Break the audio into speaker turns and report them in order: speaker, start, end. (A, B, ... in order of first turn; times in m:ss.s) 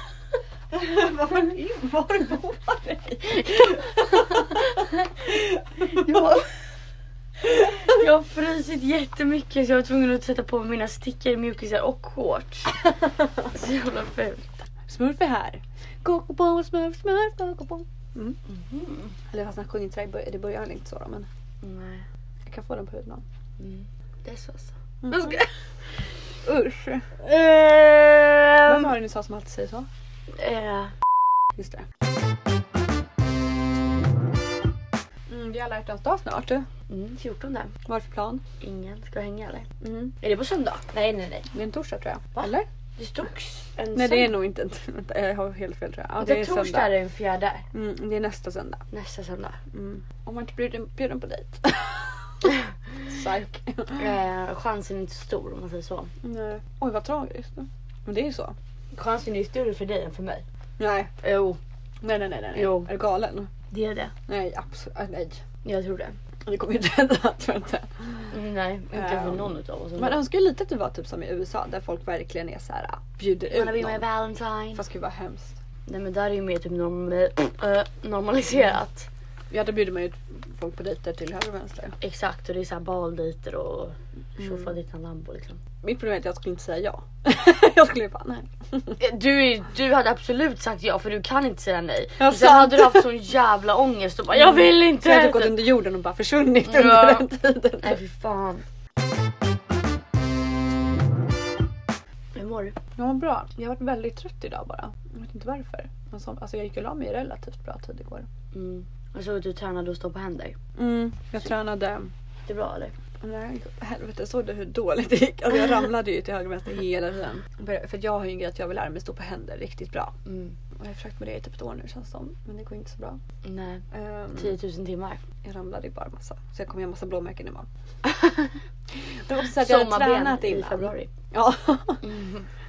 0:00.7-0:06.4 A
0:03.3-0:05.1 B
0:05.8-0:06.4 B
0:07.5-0:12.9 B
0:13.5-0:14.7 B
0:14.9-0:18.4 A
0:18.5-0:19.2 B
0:19.3-0:21.3 A
0:21.6-0:22.1 B
0:22.4-0:23.2 A
0:23.6-0:25.5 B
0:25.0-0:25.5 A
0:26.4-0:27.2 A
0:27.2-0:28.9 B
0:28.6-0:29.9 A
0:30.3-0:30.9 B
0:31.6-0:31.9 A
0:35.3-0:36.7 A
0:36.9-0:37.7 B
0:37.8-0:38.4 A
0:38.6-0:39.7 B
0:39.8-0:40.2 A
0:40.2-0:41.5 B
0:41.5-0:42.7 A
0:42.4-0:44.3 B
0:43.9-0:46.9 A
0:46.2-0:47.6 B
0:47.7-0:48.8 A
0:48.9-0:49.6 B
0:49.7-0:52.5 A
0:53.1-0:54.1 A
0:54.0-0:56.1 B
0:56.2-0:58.6 A
0:58.9-1:00.4 B
1:00.8-1:01.1 A
1:01.2-1:01.6 B
1:02.0-1:03.5 A
1:02.5-1:02.9 B
1:03.7-1:04.1 B
1:04.3-1:05.4 A
1:05.6-1:06.2 B
1:06.4-1:08.4 A
1:08.3-1:10.2 B
1:08.9-1:14.0 A
1:13.5-1:14.8 B
1:14.8-1:15.6 A
1:15.9-1:19.1 B
1:19.5-1:22.0 A
1:22.0-1:25.6 B
1:24.4-1:24.7 A
1:25.8-1:29.0 A
1:29.0-1:35.6 B
1:32.2-1:33.1 A
1:34.3-1:38.0 A
1:36.6-1:37.3 B
1:37.8-1:38.6 B
1:42.4-1:42.8 B
1:43.0-1:48.3 A
1:48.5-1:50.6 B
1:50.8-1:52.1 A
1:52.5-1:53.0 B
1:53.2-2:00.2 A
2:00.2-2:00.6 B
2:00.8-2:03.2 A
2:03.4-2:05.2 B
2:03.9-2:04.5 A
2:05.4-2:07.7 A
2:08.0-2:08.5 B
2:09.0-2:12.0 A
2:09.5-2:11.1 B
2:12.0-2:12.5 B